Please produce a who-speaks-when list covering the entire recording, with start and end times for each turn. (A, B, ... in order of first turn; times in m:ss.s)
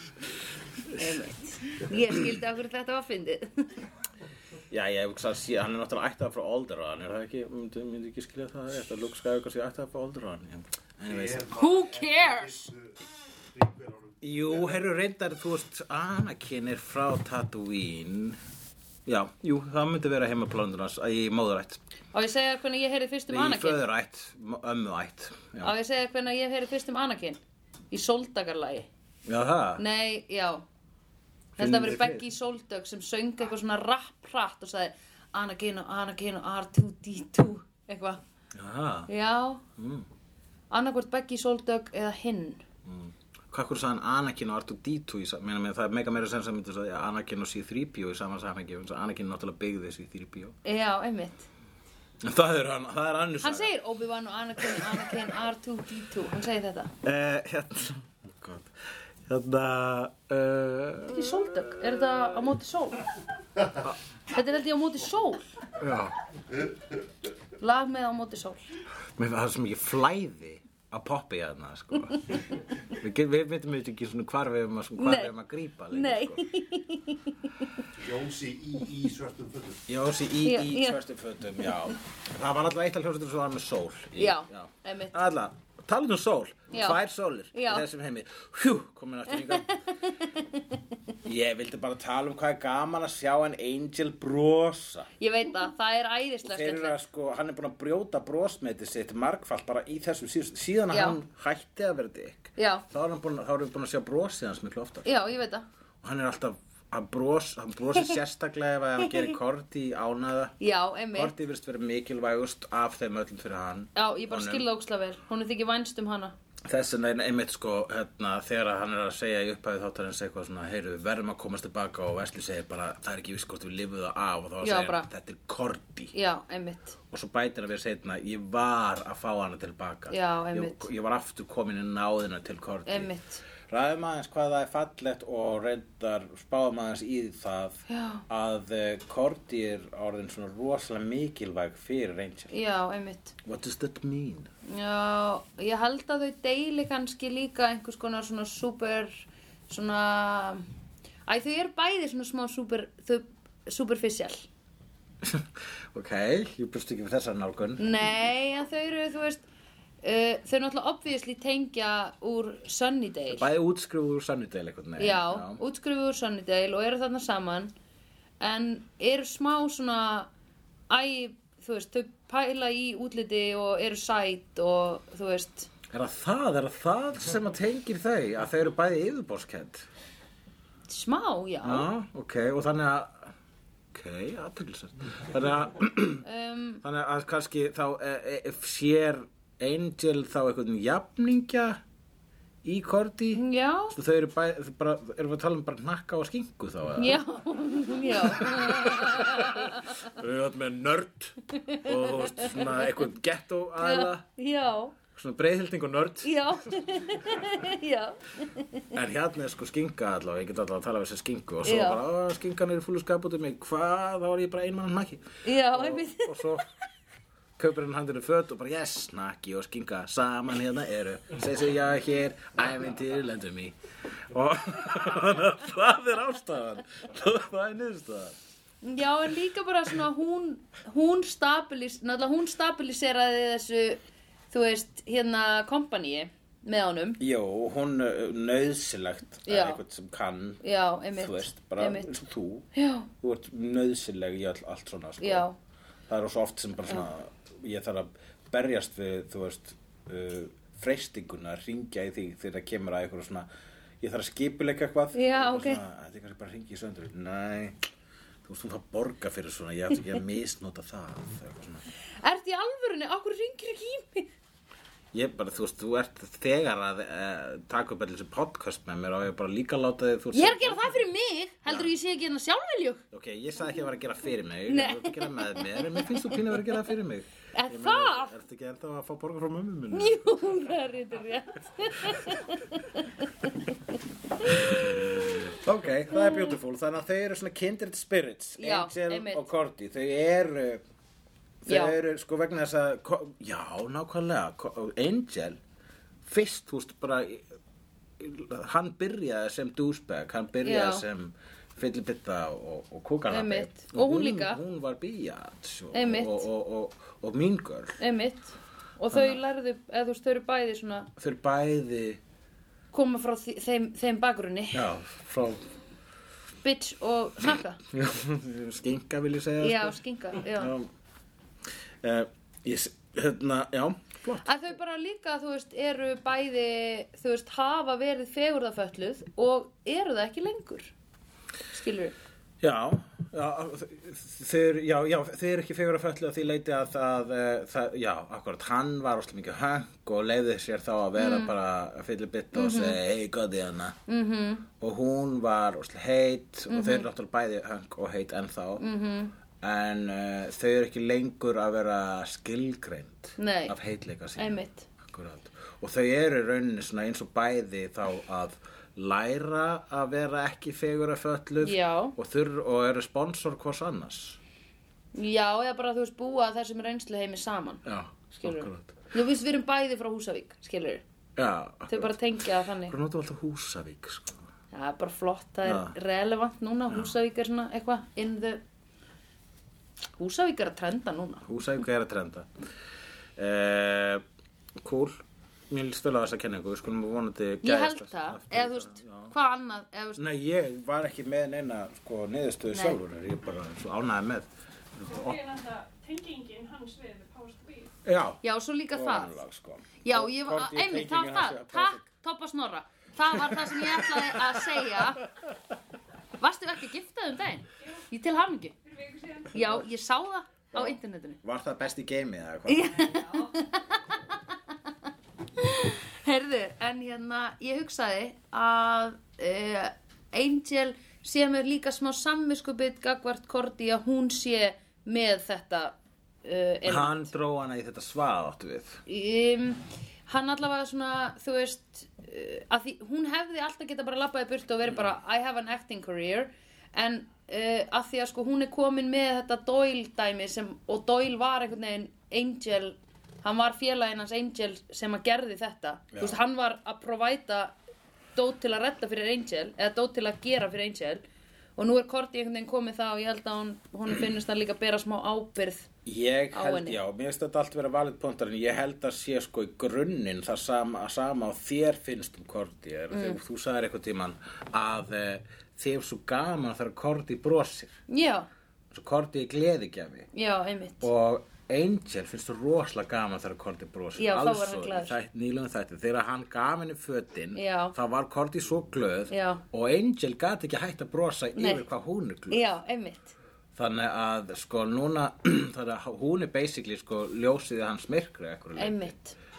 0:00.9-0:03.8 A
0:04.7-0:11.5 B
0:11.1-0:12.9 C
0:11.5-0:12.7 A
0:13.5-0:14.5 C
0:14.2-0:18.4 B
0:19.1-0:21.8 B
0:22.1-0:23.8 A
0:23.3-0:25.7 B
0:25.6-0:27.4 A
0:27.9-0:28.9 A
0:29.3-0:29.8 B
0:29.8-0:30.6 A
0:31.6-0:32.3 B
0:31.6-0:38.2 A
0:38.5-0:39.1 B
0:39.1-0:39.6 A
0:39.8-0:40.1 B
0:40.7-0:42.6 A
0:42.8-0:50.6 B
0:50.6-0:51.5 A
0:52.2-0:53.7 B
0:53.4-0:56.9 A
0:54.6-0:55.3 B
0:57.0-0:58.7 B
0:59.2-1:01.8 B
1:01.1-1:03.0 A
1:04.3-1:05.5 A
1:05.8-1:06.2 B
1:07.6-1:08.6 A
1:09.2-1:16.5 B
1:15.0-1:15.3 A
1:15.9-1:17.8 A
1:18.0-1:19.8 C
1:19.9-1:29.7 B
1:20.4-1:21.0 A
1:24.2-1:25.2 A
1:26.7-1:27.0 A
1:27.5-1:27.9 A
1:29.3-1:30.8 A
1:31.2-1:35.1 B
1:35.2-1:37.0 A
1:36.4-1:45.1 B
1:40.9-1:41.2 A
1:42.6-1:42.8 A
1:45.0-1:45.7 A
1:46.0-1:50.6 B
1:50.6-1:51.3 A
1:51.1-1:54.7 B
1:54.0-1:56.3 A
1:56.6-2:06.1 B
2:04.6-2:05.1 A
2:06.1-2:07.0 A
2:07.1-2:13.1 B
2:10.1-2:10.9 A
2:12.9-2:13.4 A
2:13.7-2:22.5 B
2:17.9-2:18.2 A
2:22.5-2:23.4 A
2:23.4-2:24.5 B
2:24.7-2:30.6 A
2:31.3-2:34.5 A
2:35.2-2:37.8 B
2:37.8-2:39.4 A
2:40.0-2:43.5 A
2:43.3-2:45.6 B
2:45.0-2:47.7 A
2:48.4-2:50.3 A
2:50.9-2:55.7 A
2:55.9-2:59.9 B
3:00.9-3:01.9 A
3:01.6-3:03.3 B
3:03.9-3:06.2 B
3:06.2-3:06.8 A
3:06.8-3:11.8 B
3:12.6-3:17.2 B
3:13.3-3:14.0 A
3:17.0-3:20.0 A
3:18.1-3:24.2 B
3:21.6-3:22.9 A
3:23.8-3:25.0 A
3:25.1-3:26.4 B
3:26.2-3:28.9 A
3:28.9-3:36.7 B
3:31.6-3:32.0 A
3:35.4-3:36.6 A
3:37.6-3:43.8 B
3:44.3-3:48.4 B
3:48.8-3:57.2 A
3:57.2-4:05.5 B
3:59.5-3:59.8 A
4:00.6-4:02.1 A
4:02.7-4:03.1 A
4:05.2-4:05.6 A
4:06.1-4:13.5 B
4:14.0-4:17.8 B
4:15.1-4:15.8 A
4:18.4-4:21.8 B
4:22.2-4:24.3 A
4:25.1-4:31.1 B
4:30.3-4:33.0 A
4:31.7-4:31.9 B
4:33.1-4:40.6 B
4:34.7-4:36.5 A
4:37.5-4:38.3 A
4:39.9-4:44.9 A
4:44.5-4:50.8 B
4:48.6-4:49.5 A
4:51.6-4:55.6 B
4:51.7-4:52.0 A
4:56.2-4:57.5 B
4:58.2-5:08.0 B
5:00.6-5:01.0 A
5:03.3-5:04.6 A
5:05.9-5:06.5 A
5:08.0-5:11.1 A
5:09.1-5:09.4 B
5:11.2-5:12.2 B
5:12.9-5:14.9 A
5:14.7-5:15.7 B
5:16.6-5:17.8 A
5:17.9-5:20.9 B
5:19.6-5:20.7 A
5:22.0-5:24.5 B
5:24.4-5:30.9 A
5:31.7-5:32.2 A
5:32.6-5:44.0 B
5:41.2-5:41.5 A
5:42.5-5:43.0 A
5:44.1-5:44.7 A
5:44.8-5:48.8 B
5:46.7-5:47.1 A
5:48.8-5:49.3 A
5:49.6-6:04.4 B
5:53.4-5:53.8 A
5:54.4-5:54.9 A
6:01.6-6:02.2 A
6:05.1-6:11.0 A
6:07.8-6:09.0 B
6:11.4-6:12.2 B
6:11.9-6:13.0 A
6:12.8-6:14.4 B
6:14.7-6:18.6 A
6:15.6-6:15.9 B
6:20.2-6:21.5 A
6:21.4-6:22.5 B
6:23.4-6:24.2 B
6:24.8-6:29.3 B
6:27.6-6:30.2 A
6:30.2-6:35.4 B
6:32.7-6:33.0 A
6:35.1-6:37.9 D
6:38.0-6:38.4 B
6:38.4-6:39.4 A
6:38.9-6:42.0 B
6:40.0-6:45.2 A
6:43.3-6:45.5 B
6:46.4-6:48.8 A
6:48.8-6:49.5 D
6:49.5-6:51.4 A
6:49.5-6:49.9 B
6:50.7-6:53.2 B
6:52.7-6:54.4 A
6:55.6-7:07.3 A
7:06.8-7:09.0 B
7:09.1-7:27.8 A
7:26.1-7:26.4 B
7:28.4-7:31.2 A
7:31.8-7:35.9 A
7:36.0-7:48.0 B
7:36.5-7:37.0 A
7:43.1-7:43.4 A
7:48.1-7:48.5 A
7:48.9-7:50.3 B
7:50.3-7:51.1 A
7:51.0-8:02.6 B
7:54.2-7:55.2 A
7:57.6-7:58.0 A
7:59.3-7:59.6 A
8:01.6-8:01.8 A
8:02.5-8:03.4 A
8:03.8-8:09.1 B
8:08.8-8:09.4 A